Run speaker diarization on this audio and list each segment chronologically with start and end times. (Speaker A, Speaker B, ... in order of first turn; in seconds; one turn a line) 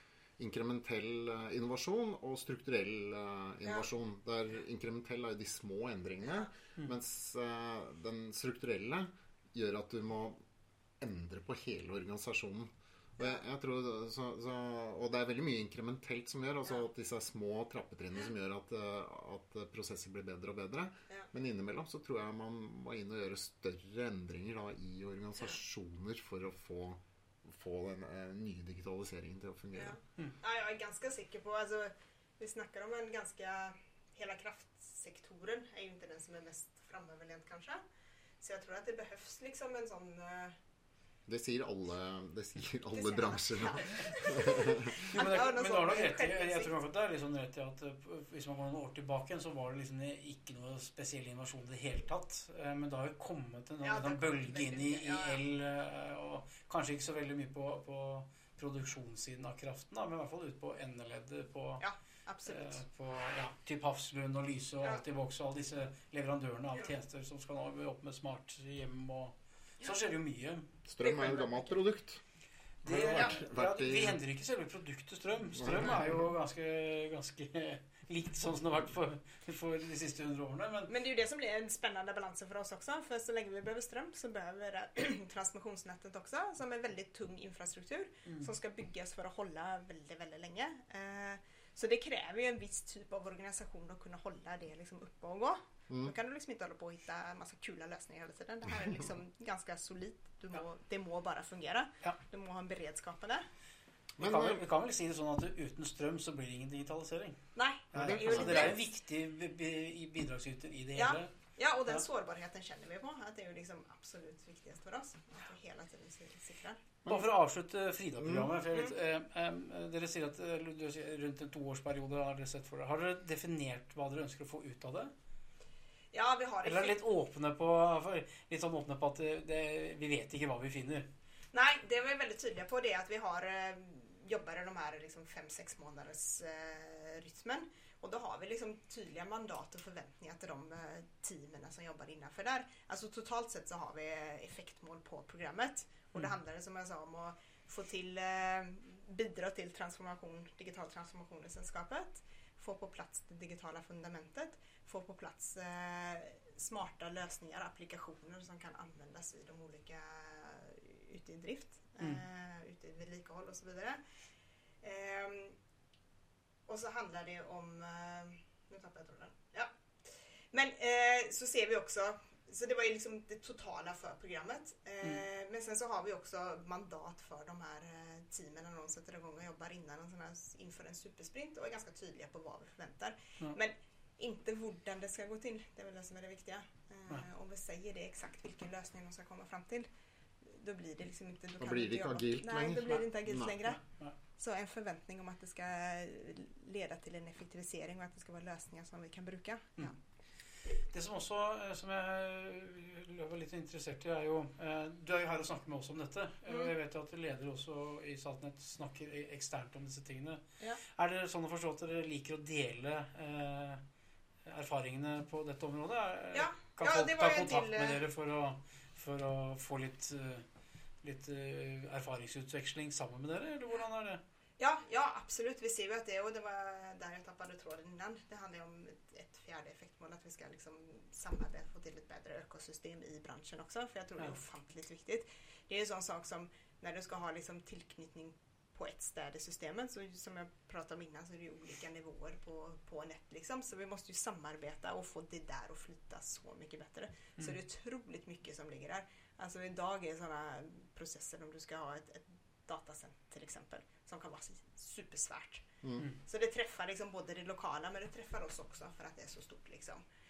Speaker A: 0.4-10.4
Speaker A: 11.0-30.0
Speaker B: 29.8-37.8
Speaker B: 38.4-40.6
Speaker A: 41.3-45.0
Speaker B: 42.9-46.7
Speaker C: 45.0-61.8
Speaker B: 53.8-55.4
Speaker B: 61.8-62.8
Speaker C: 62.5-70.7
Speaker A: 70.8-72.2
Speaker B: 71.0-71.8
Speaker C: 72.8-80.9
Speaker A: 72.9-74.2
Speaker A: 75.6-76.1
Speaker B: 80.9-103.5
Speaker C: 88.3-88.5
Speaker C: 104.2-107.4
Speaker A: 104.2-104.6
Speaker B: 107.6-108.8
Speaker C: 107.9-111.3
Speaker A: 108.0-108.7
Speaker B: 111.0-116.8
Speaker C: 117.1-125.1
Speaker A: 118.2-118.5
Speaker B: 126.1-127.0
Speaker C: 126.6-131.1
Speaker B: 131.5-164.0
Speaker B: 164.8-165.6
Speaker B: 166.7-189.9
Speaker B: 190.4-193.8
Speaker A: 191.6-193.6
Speaker C: 193.7-194.2
Speaker B: 194.4-199.9
Speaker C: 200.8-210.4
Speaker C: 210.9-213.8
Speaker C: 214.5-220.5
Speaker B: 216.3-218.0
Speaker C: 221.0-224.2
Speaker B: 224.6-255.7
Speaker B: 256.2-260.0